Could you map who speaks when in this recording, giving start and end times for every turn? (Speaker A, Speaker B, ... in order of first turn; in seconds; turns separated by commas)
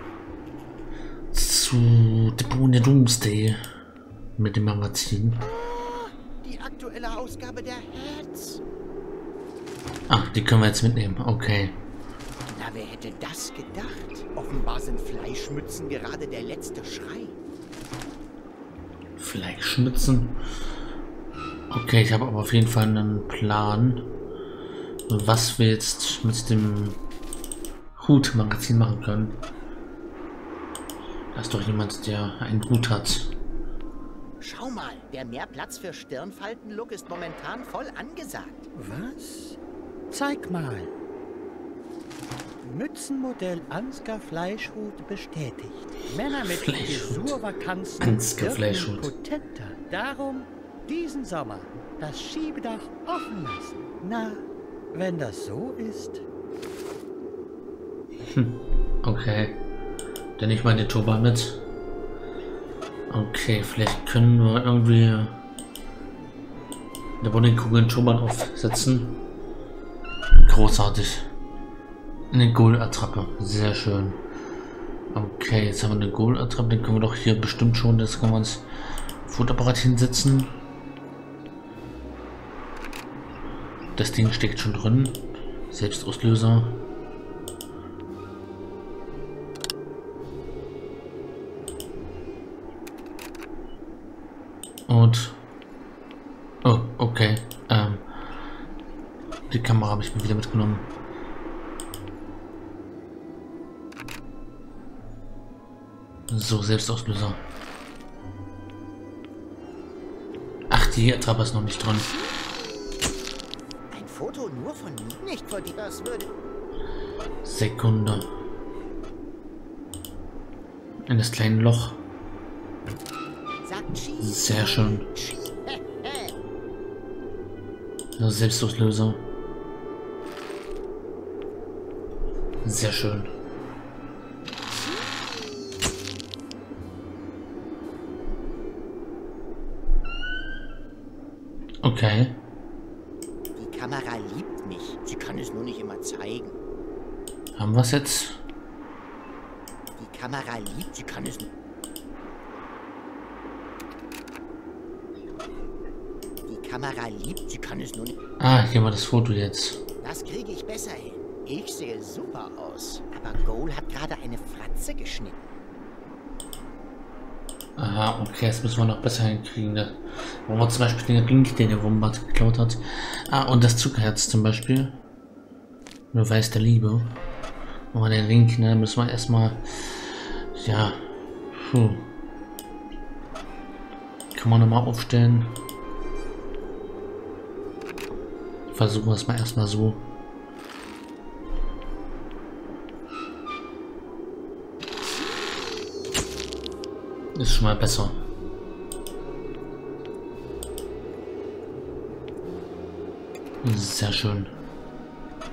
Speaker A: 1.3-3.6, Speaker A: 4.4-5.4, Speaker B: 5.4-8.6, Speaker A: 10.1-11.8, Speaker B: 12.5-17.4, Speaker A: 19.2-20.4, Speaker A: 21.7-24.1, Speaker A: 25.1-27.0, Speaker A: 27.9-29.4, Speaker A: 31.3-33.3, Speaker B: 34.4-38.7, Speaker C: 38.7-39.6, Speaker C: 40.1-40.9, Speaker C: 42.6-54.4, Speaker A: 46.4-47.4, Speaker A: 48.0-49.1, Speaker C: 54.9-56.2, Speaker A: 58.2-59.6, Speaker A: 60.4-61.6, Speaker A: 63.1-65.4, Speaker A: 67.2-69.2, Speaker A: 70.3-71.3, Speaker A: 72.3-74.2, Speaker A: 75.1-78.7, Speaker A: 79.2-80.6, Speaker A: 84.0-86.8, Speaker A: 94.9-95.4, Speaker A: 96.6-98.0, Speaker A: 99.5-100.9, Speaker A: 106.3-107.4, Speaker A: 110.7-112.1, Speaker B: 112.1-113.0, Speaker B: 113.9-116.3, Speaker A: 117.4-118.3, Speaker A: 121.1-122.0, Speaker B: 123.6-126.3, Speaker A: 124.2-125.1, Speaker A: 128.2-129.3, Speaker A: 132.6-133.3, Speaker B: 134.7-135.7, Speaker A: 141.8-142.4, Speaker B: 143.6-146.6, Speaker A: 147.6-148.4, Speaker B: 149.9-151.5, Speaker B: 156.4-158.1, Speaker A: 158.4-159.8, Speaker B: 160.0-165.4, Speaker A: 167.8-175.0, Speaker A: 176.1-177.1, Speaker A: 177.9-182.1, Speaker A: 184.3-185.5, Speaker A: 188.7-190.1, Speaker A: 197.3-198.2, Speaker A: 203.6-204.5